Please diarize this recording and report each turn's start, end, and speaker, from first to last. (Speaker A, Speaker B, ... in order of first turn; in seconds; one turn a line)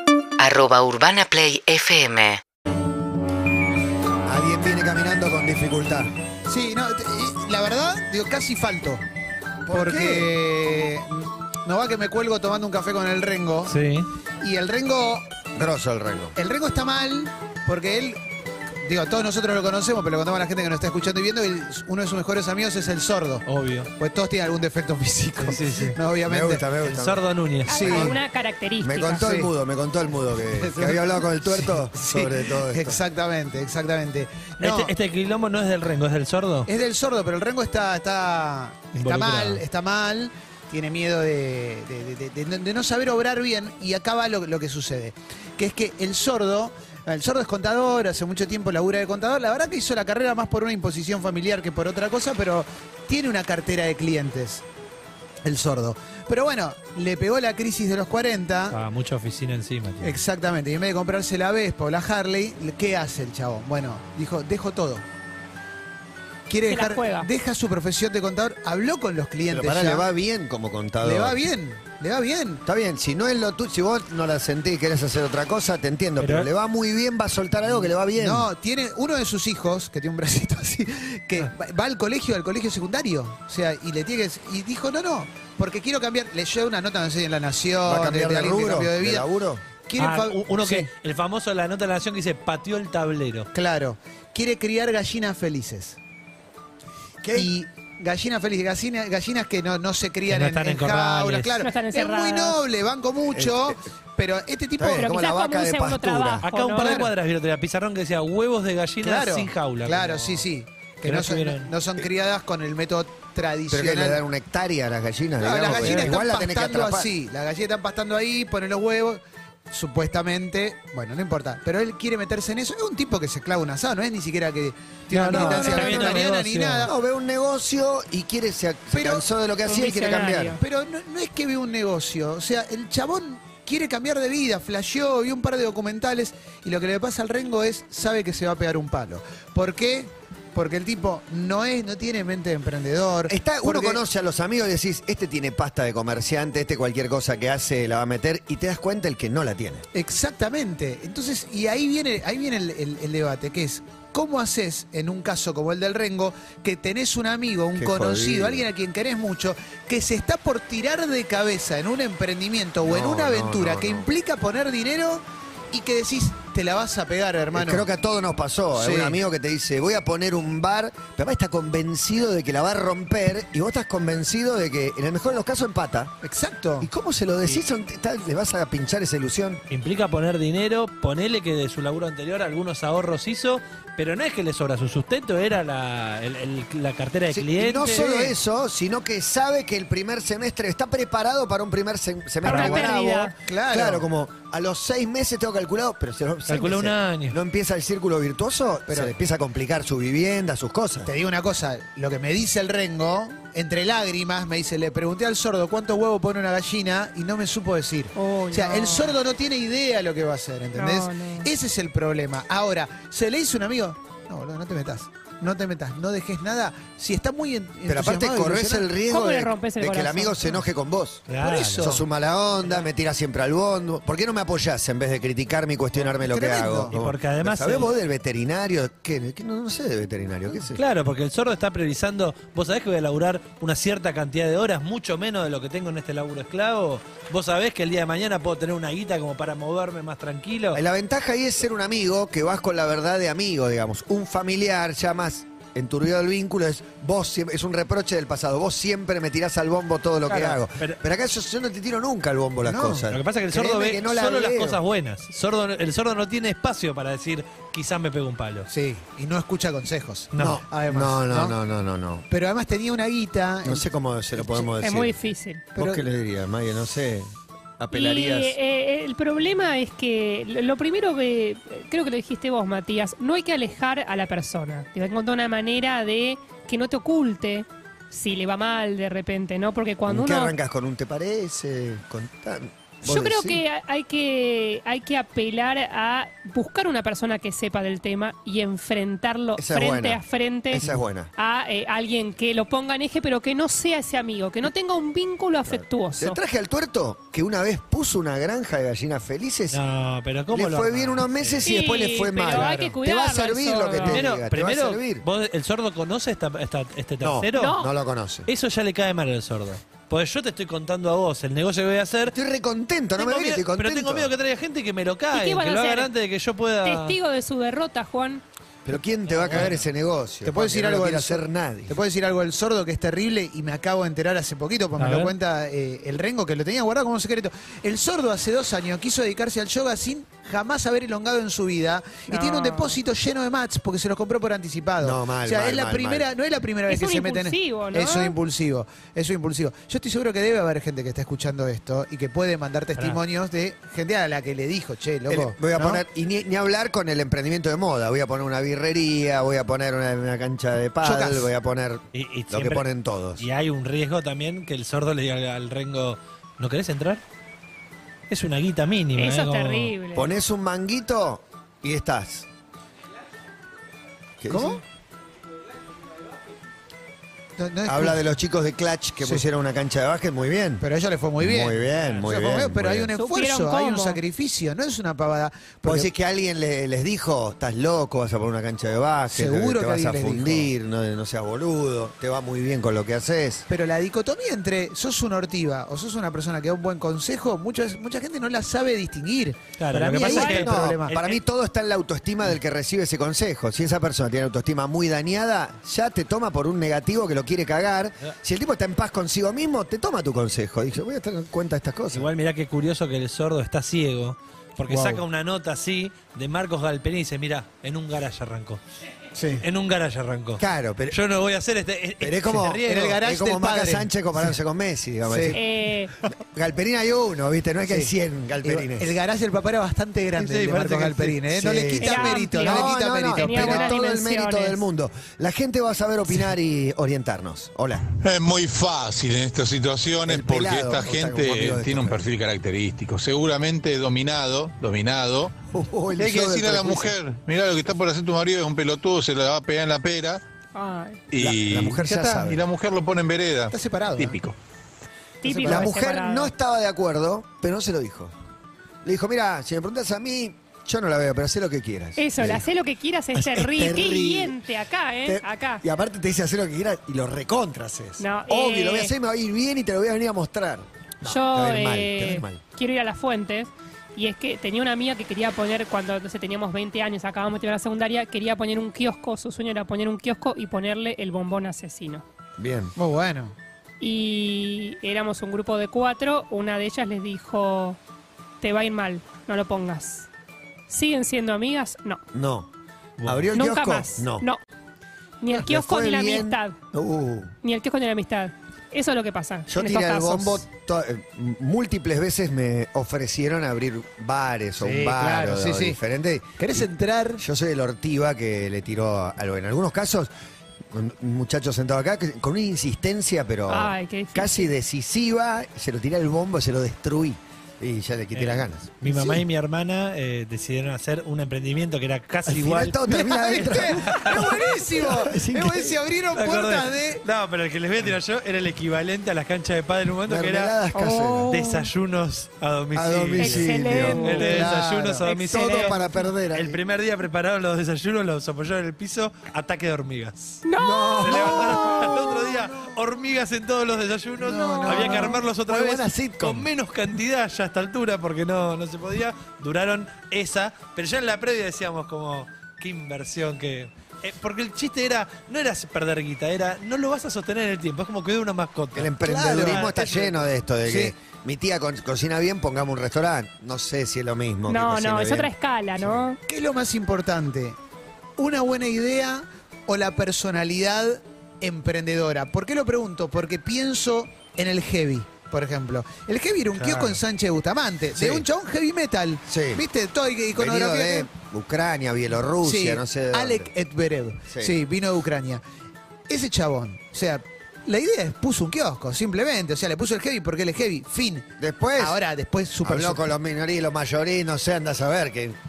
Speaker A: 0.4-2.4
Speaker B: 4.2-6.1
Speaker C: 6.5-9.0
Speaker B: 9.7-10.3
Speaker C: 9.7-13.8
Speaker D: 13.7-14.1
Speaker C: 14.4-15.3
Speaker B: 15.5-16.3
Speaker C: 16.4-18.2
Speaker C: 18.8-23.4
Speaker D: 23.4-23.9
Speaker C: 24.0-26.6
Speaker D: 25.4-26.0
Speaker B: 26.2-27.2
Speaker D: 26.9-27.8
Speaker E: 27.7-29.2
Speaker C: 27.7-28.2
Speaker B: 27.9-28.2
Speaker B: 28.8-33.0
Speaker C: 29.2-29.5
Speaker C: 30.6-34.9
Speaker D: 34.6-36.7
Speaker C: 36.7-54.6
Speaker D: 38.9-39.6
Speaker C: 55.4-58.8
Speaker D: 58.7-60.2
Speaker C: 60.0-65.0
Speaker C: 66.5-70.0
Speaker E: 66.7-67.3
Speaker B: 69.5-71.4
Speaker C: 71.0-72.6
Speaker B: 72.6-78.5
Speaker D: 76.2-76.5
Speaker C: 77.7-89.3
Speaker B: 87.8-89.6
Speaker C: 89.8-90.9
Speaker D: 90.0-93.5
Speaker C: 93.5-96.0
Speaker B: 97.2-97.5
Speaker C: 97.3-105.1
Speaker D: 100.3-101.5
Speaker E: 101.6-102.6
Speaker B: 103.3-103.8
Speaker B: 104.8-106.4
Speaker E: 104.9-107.0
Speaker D: 106.4-110.5
Speaker C: 106.8-107.1
Speaker C: 109.0-114.2
Speaker D: 111.0-111.7
Speaker B: 113.7-117.1
Speaker C: 115.4-126.9
Speaker D: 115.7-116.2
Speaker D: 125.1-126.9
Speaker B: 125.3-126.2
Speaker B: 126.8-130.6
Speaker C: 128.9-129.2
Speaker E: 129.7-130.6
Speaker C: 130.6-144.0
Speaker B: 143.3-149.8
Speaker C: 149.9-167.8
Speaker B: 157.8-158.7
Speaker B: 162.8-164.1
Speaker B: 167.5-176.1
Speaker C: 168.7-169.2
Speaker C: 176.2-176.9
Speaker B: 176.8-179.6
Speaker D: 179.7-188.2
Speaker B: 187.3-201.1
Speaker E: 192.4-193.3
Speaker C: 192.5-194.1
Speaker D: 196.5-197.4
Speaker C: 198.9-199.1
Speaker C: 201.1-218.9
Speaker E: 208.1-209.2
Speaker E: 210.7-211.5
Speaker B: 217.9-221.3
Speaker E: 219.1-220.5
Speaker D: 221.3-222.0
Speaker C: 221.4-222.0
Speaker B: 221.8-230.8
Speaker C: 226.2-226.9
Speaker D: 226.9-227.9
Speaker D: 230.7-240.8
Speaker B: 240.7-254.8
Speaker D: 250.3-251.0
Speaker C: 252.6-253.1
Speaker D: 253.1-258.7
Speaker C: 258.7-261.5
Speaker D: 260.3-260.6
Speaker B: 260.4-262.2
Speaker C: 262.3-264.7
Speaker B: 263.6-265.2
Speaker E: 264.8-265.7
Speaker C: 265.7-266.0
Speaker B: 265.7-268.6
Speaker E: 267.9-280.5
Speaker B: 280.1-283.6
Speaker E: 283.0-296.4
Speaker B: 289.6-290.2
Speaker B: 290.7-291.3
Speaker B: 295.7-299.8
Speaker D: 299.7-301.7
Speaker B: 300.5-305.2
Speaker E: 301.6-304.2
Speaker D: 302.5-302.9
Speaker D: 304.0-307.7
Speaker B: 307.2-308.5
Speaker E: 307.5-307.9
Speaker D: 308.5-312.3
Speaker B: 312.3-314.3
Speaker D: 313.2-317.1
Speaker E: 315.3-316.1
Speaker E: 316.8-318.4
Speaker B: 318.8-322.0
Speaker D: 319.3-319.8
Speaker C: 320.4-346.0
Speaker D: 325.0-325.3
Speaker E: 332.3-333.0
Speaker B: 335.0-336.3
Speaker E: 336.9-338.4
Speaker B: 345.3-353.4
Speaker C: 351.0-351.5
Speaker D: 352.1-357.2
Speaker D: 358.3-359.9
Speaker E: 359.1-360.3
Speaker B: 360.1-362.5
Speaker B: 364.4-364.8
Speaker C: 364.5-364.8
Speaker C: 367.6-368.2
Speaker B: 367.9-370.8
Speaker C: 370.8-376.1
Speaker B: 371.4-373.1
Speaker E: 373.1-374.2
Speaker B: 375.8-383.7
Speaker C: 379.3-380.7
Speaker C: 383.7-391.1
Speaker D: 389.8-391.4
Speaker B: 390.3-402.3
Speaker E: 390.3-390.6
Speaker D: 402.1-408.8
Speaker C: 404.9-405.2
Speaker D: 409.6-413.2
Speaker B: 410.6-411.2
Speaker B: 412.2-415.6
Speaker C: 412.9-414.5
Speaker C: 415.2-415.6
Speaker E: 415.5-416.1
Speaker B: 416.5-419.2
Speaker C: 417.9-418.1
Speaker C: 418.6-424.0
Speaker D: 420.4-421.4
Speaker B: 421.5-428.0
Speaker E: 422.0-424.8
Speaker F: 428.2-435.5
Speaker B: 430.2-432.3
Speaker B: 435.7-437.1
Speaker F: 436.2-440.4
Speaker E: 440.7-441.2
Speaker F: 441.3-444.6
Speaker B: 441.3-442.6
Speaker C: 443.7-444.4
Speaker E: 445.4-446.5
Speaker C: 445.4-445.9
Speaker B: 445.6-448.3
Speaker B: 449.0-452.7
Speaker E: 452.2-455.8
Speaker B: 453.3-454.6
Speaker B: 455.2-462.6
Speaker E: 458.2-459.1
Speaker E: 461.2-472.2
Speaker B: 472.6-472.9
Speaker C: 472.9-473.5
Speaker E: 474.0-478.0
Speaker E: 478.6-480.3
Speaker E: 480.9-482.2
Speaker B: 482.3-482.7
Speaker D: 483.2-483.5
Speaker B: 483.2-484.5
Speaker E: 483.5-484.6
Speaker E: 485.4-486.8
Speaker B: 485.5-487.5
Speaker E: 487.6-490.6
Speaker B: 489.7-496.9
Speaker C: 494.8-496.0
Speaker C: 496.6-497.4
Speaker B: 497.4-500.3
Speaker B: 500.9-508.9
Speaker E: 503.7-504.6
Speaker D: 508.3-513.0
Speaker C: 509.1-509.4
Speaker B: 512.5-516.0
Speaker C: 513.1-517.2
Speaker D: 514.0-514.4
Speaker D: 516.3-520.8
Speaker B: 520.2-521.5
Speaker E: 520.9-521.9
Speaker D: 521.5-526.0
Speaker B: 522.9-524.5
Speaker E: 523.4-526.0
Speaker C: 524.1-525.2
Speaker B: 525.5-526.8
Speaker D: 526.5-530.6
Speaker E: 530.6-531.6
Speaker B: 530.8-532.5
Speaker D: 531.2-550.4
Speaker C: 534.4-535.4
Speaker B: 534.9-536.7
Speaker B: 548.9-556.2
Speaker C: 549.2-550.2
Speaker C: 550.8-551.1
Speaker E: 554.7-556.4
Speaker C: 556.5-557.8
Speaker C: 558.4-571.3
Speaker D: 566.8-567.2
Speaker B: 568.1-568.5
Speaker B: 569.5-569.8
Speaker B: 570.5-573.7
Speaker C: 572.6-575.6
Speaker B: 574.5-574.8
Speaker C: 576.3-583.2
Speaker B: 581.6-582.2
Speaker B: 582.8-585.5